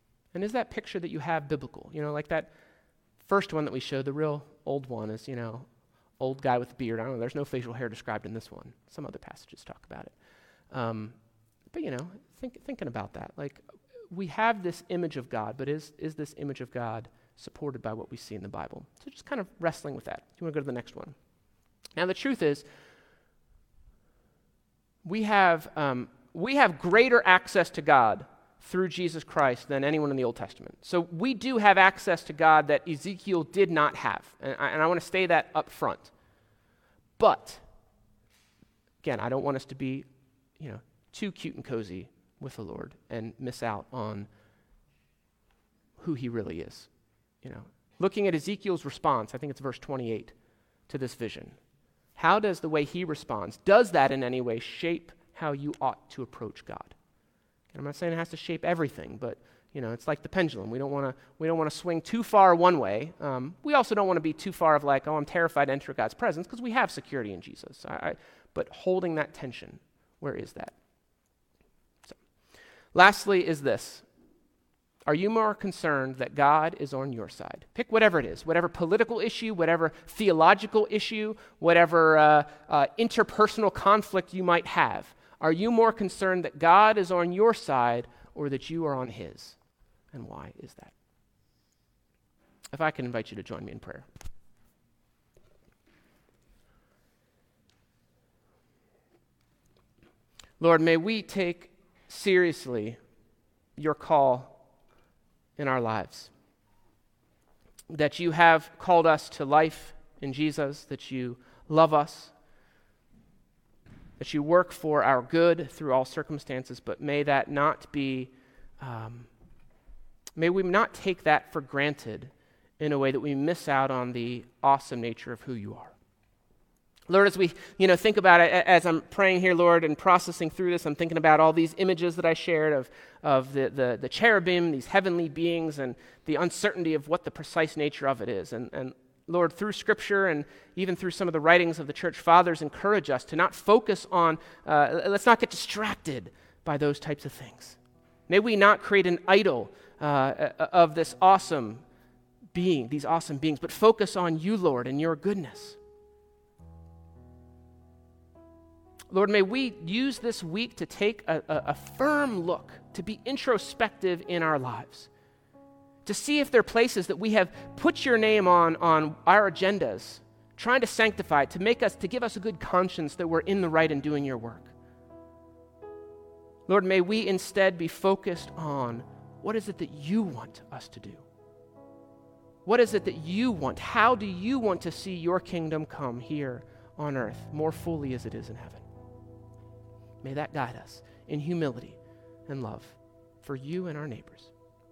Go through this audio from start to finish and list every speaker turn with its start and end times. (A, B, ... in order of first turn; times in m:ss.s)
0:00.3-0:02.5 A
0:03.2-0:05.7 A
0:06.2-0:10.1 A
0:10.7-0:11.2 A
0:11.7-0:21.2 A
0:22.0-0:22.6 A
0:25.0-0:36.1 A
0:37.2-0:37.6 A
0:39.0-0:40.1 A
0:40.6-0:44.3 A
0:46.0-0:46.9 A
0:47.4-0:50.3 A
0:50.9-0:51.6 A
0:52.2-0:57.0 A
0:57.7-1:10.8 A
1:12.9-1:14.0 A
1:15.1-1:29.6 A
1:30.1-1:30.9 A
1:32.7-1:34.1 A
1:40.6-1:43.0 A
1:43.8-1:44.6 A
1:45.6-1:46.3 A
1:47.9-1:52.3 A
1:54.2-1:59.3 A
2:00.4-2:06.0 A
2:07.1-2:31.8 A
2:32.5-2:35.8 A
2:39.1-2:45.1 A
2:46.0-2:54.7 A
2:56.7-3:01.2 A
3:02.6-3:08.8 A
3:10.2-3:14.5 A